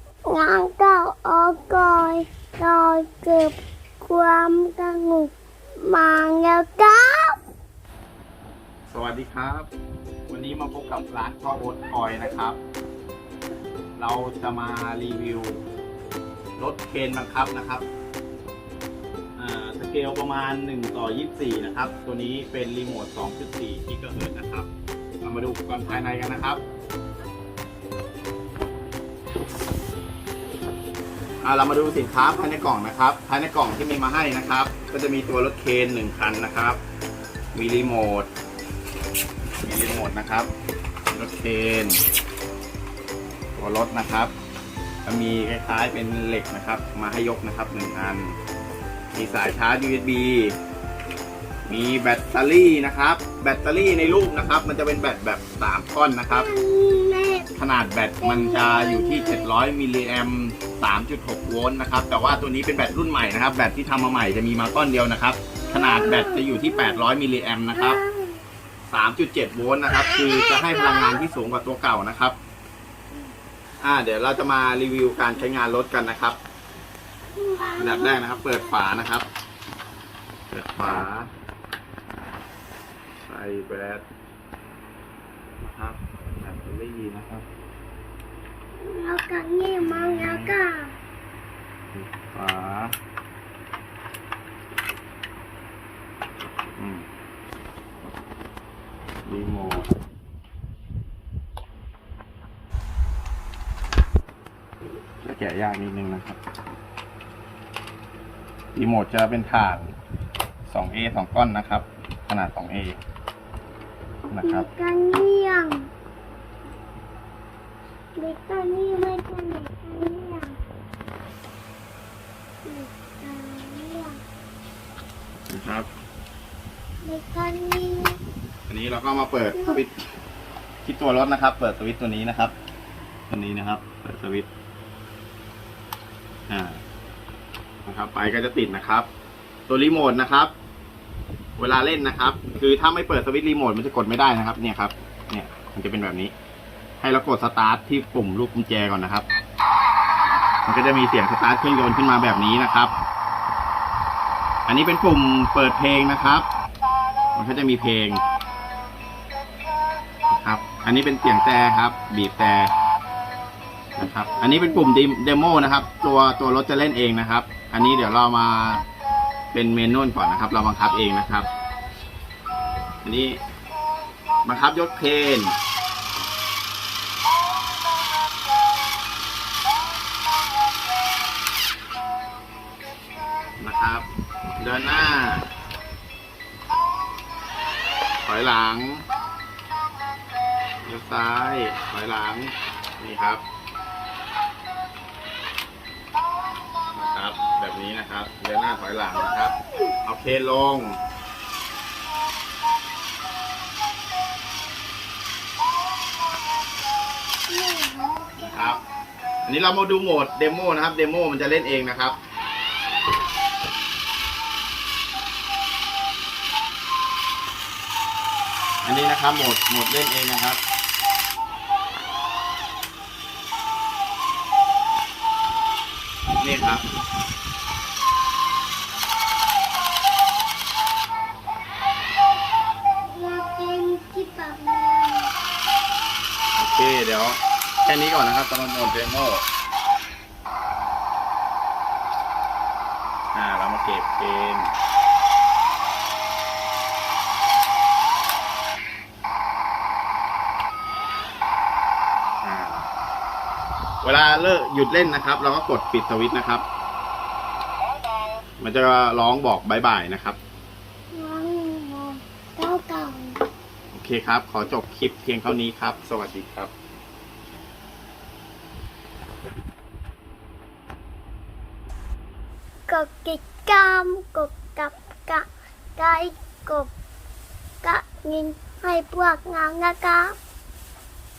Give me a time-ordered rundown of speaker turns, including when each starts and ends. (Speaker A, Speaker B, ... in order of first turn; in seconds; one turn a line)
Speaker A: 0.3-7.4
Speaker B: 8.9-9.7
Speaker B: 10.3-12.6
Speaker B: 14.0-15.6
Speaker B: 16.6-17.9
Speaker B: 19.4-24.7
Speaker B: 25.2-26.6
Speaker B: 31.4-36.8
Speaker B: 37.5-38.3
Speaker B: 39.6-40.5
Speaker B: 41.1-42.0
Speaker B: 43.5-44.3
Speaker B: 45.0-48.4
Speaker B: 49.1-50.6
Speaker B: 51.7-56.5
Speaker A: 56.3-57.5
Speaker B: 57.6-68.0
Speaker A: 58.2-59.5
Speaker A: 65.6-67.1
Speaker A: 67.7-68.4
Speaker B: 68.9-72.4
Speaker B: 73.8-76.4
Speaker A: 77.3-78.8
Speaker B: 77.8-79.3
Speaker B: 80.5-81.3
Speaker B: 83.3-84.0
Speaker B: 85.6-87.5
Speaker A: 88.8-90.9
Speaker B: 89.8-90.6
Speaker B: 91.9-93.0
Speaker B: 96.8-97.1
Speaker B: 99.3-99.9
Speaker B: 105.2-106.4
Speaker B: 108.8-109.9
Speaker B: 110.7-113.0
Speaker B: 114.3-114.7
Speaker A: 114.4-115.9
Speaker A: 118.2-120.6
Speaker A: 122.7-124.2
Speaker B: 125.5-125.9
Speaker A: 127.0-128.2
Speaker B: 128.7-130.0
Speaker A: 129.5-129.8
Speaker B: 130.8-132.6
Speaker B: 133.3-134.5
Speaker B: 136.5-136.8
Speaker B: 137.9-139.1
Speaker B: 139.7-140.5
Speaker B: 141.6-146.3
Speaker B: 147.0-149.3
Speaker B: 150.7-152.9
Speaker B: 154.7-156.5
Speaker B: 157.3-158.2
Speaker B: 160.3-162.7
Speaker B: 164.0-168.9
Speaker B: 169.5-171.5
Speaker B: 173.0-173.4
Speaker B: 174.4-175.6
Speaker B: 183.6-184.1
Speaker B: 184.6-185.5
Speaker B: 188.2-189.1
Speaker B: 190.8-193.4
Speaker B: 196.9-201.0
Speaker A: 207.5-208.8
Speaker B: 208.4-208.8
Speaker B: 209.5-212.2
Speaker B: 218.8-220.6
Speaker B: 226.4-226.8
Speaker A: 233.0-235.3
Speaker B: 236.6-239.5
Speaker B: 243.3-244.7
Speaker B: 252.4-252.9
Speaker B: 254.0-256.6
Speaker B: 258.6-260.4
Speaker A: 261.1-263.4
Speaker B: 263.9-266.7
Speaker A: 272.9-276.9
Speaker A: 277.8-280.4